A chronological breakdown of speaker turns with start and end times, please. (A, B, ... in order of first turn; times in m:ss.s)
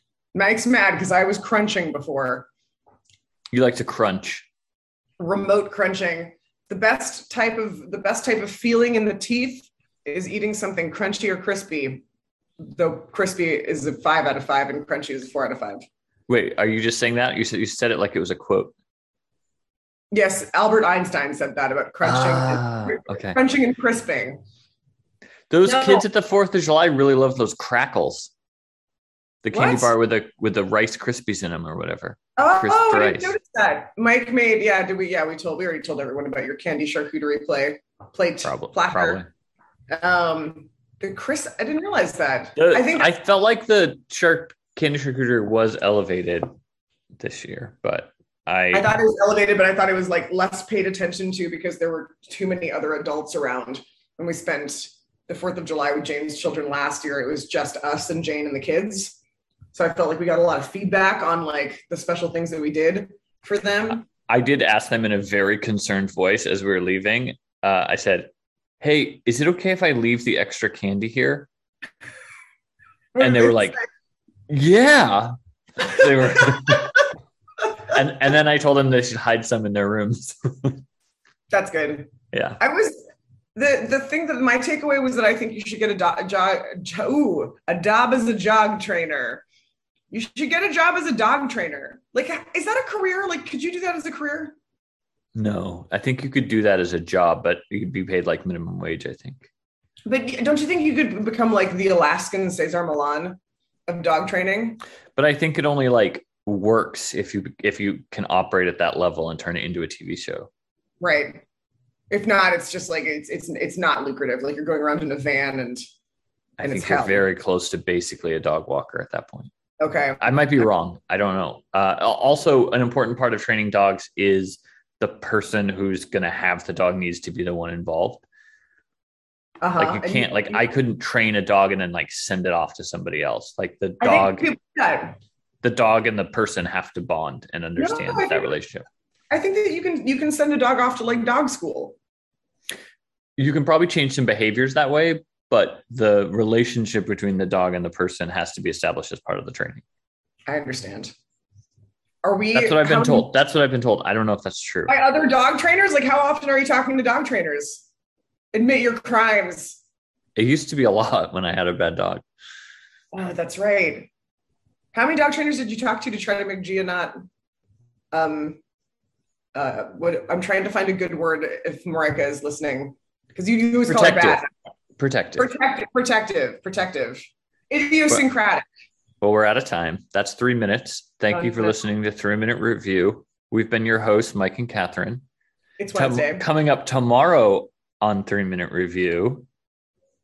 0:00.3-0:02.5 A
0:03.5-0:04.5 B
0:05.2-0:12.0 A
0:12.6-0:15.8 A
0:16.3-0:18.7 B
0:20.1-0:24.4 A
0:22.0-0:23.4 B
0:25.5-0:28.3 B
0:25.6-0:26.0 A
0:29.4-0:33.3 B
0:29.5-0:29.9 A
0:32.4-0:39.2 A
0:38.4-0:39.3 B
0:39.9-0:43.1 A
0:42.6-0:46.5 B
0:47.2-0:48.9 B
0:48.7-0:59.2 A
0:59.7-1:04.0 A
1:03.9-1:11.5 B
1:13.1-1:13.8 A
1:13.2-1:13.8 B
1:14.5-1:16.9 B
1:16.4-1:16.7 A
1:17.9-1:20.8 B
1:21.5-1:23.0 A
1:22.3-1:22.6 B
1:23.5-1:29.4 A
1:30.1-1:34.5 A
1:35.3-1:39.5 B
1:40.0-1:44.8 A
1:45.2-1:50.5 B
1:51.0-1:51.4 A
1:52.1-1:55.8 A
1:56.6-1:59.5 B
1:56.6-1:57.2 A
1:59.8-2:00.2 A
2:00.2-2:08.2 B
2:09.6-2:10.6 A
2:09.8-2:14.5 B
2:14.0-2:15.2 A
2:15.6-2:18.8 B
2:17.8-2:18.5 A
2:19.3-2:22.0 A
2:23.4-2:29.8 B
2:30.4-2:31.1 A
2:32.2-2:33.3 A
2:32.5-2:34.9 B
2:34.9-2:37.8 A
2:38.5-2:39.8 A
2:40.4-2:42.2 B
2:43.1-2:44.1 A
2:44.9-2:47.2 A
2:48.1-2:48.6 A
2:49.5-2:54.5 A
2:53.9-2:54.4 B
2:55.0-2:55.5 B
2:55.4-2:58.7 A
2:59.2-3:05.2 B
3:01.3-3:01.8 A
3:05.8-3:06.5 A
3:05.9-3:09.4 B